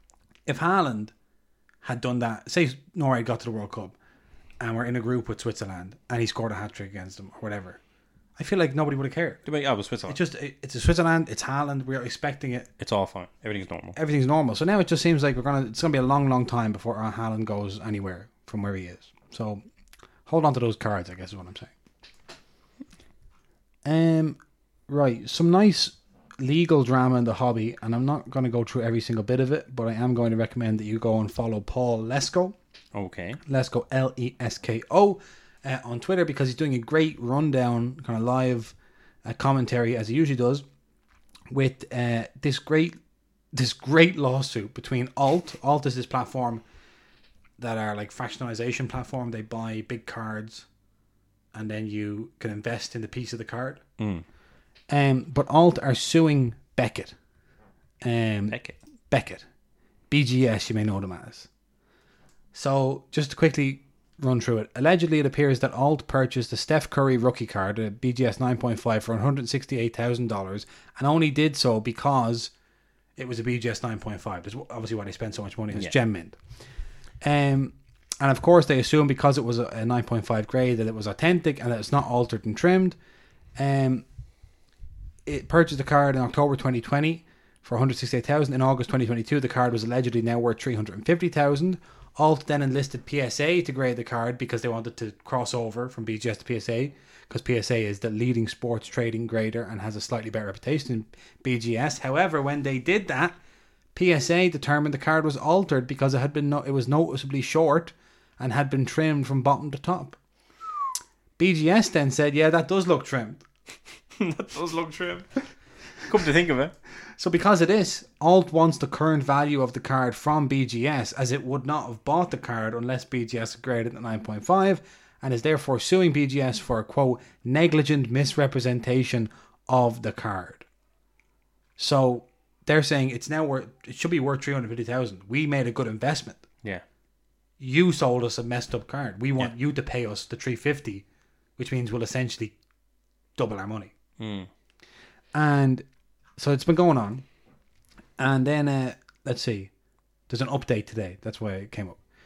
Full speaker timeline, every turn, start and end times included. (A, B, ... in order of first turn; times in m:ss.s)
0:00.5-0:01.1 A
0:01.8-0:03.9 A
0:04.6-0:07.8 A
0:08.4-0:09.4 A
0:09.4-0:10.2 B
0:10.1-0:12.7 A
0:12.8-0:14.0 B
0:13.9-0:19.6 A
0:20.2-0:21.7 A
0:23.8-0:32.6 A
0:32.9-0:33.4 B
0:33.4-0:40.6 A
0:41.5-0:43.0 A
0:43.5-0:46.6 A
0:47.6-0:50.7 A
0:51.5-0:53.8 A
0:54.0-0:54.2 B
0:54.9-0:57.1 A
0:58.0-0:58.6 A
0:58.5-0:58.8 B
0:59.1-0:59.4 A
1:00.1-1:01.5 A
1:02.5-1:12.5 A
1:13.2-1:16.4 A
1:17.2-1:23.0 A
1:23.6-1:24.0 A
1:25.2-1:43.3 A
1:43.9-1:50.2 A
1:51.4-1:53.4 A
1:54.1-1:55.3 B
1:56.0-1:56.7 B
1:57.2-2:10.6 A
2:11.8-2:16.4 A
2:17.6-2:21.0 A
2:21.6-2:22.6 A
2:23.4-2:23.9 A
2:24.2-2:24.5 B
2:25.3-2:25.8 A
2:26.4-2:27.2 A
2:28.2-2:29.7 A
2:30.3-2:32.0 A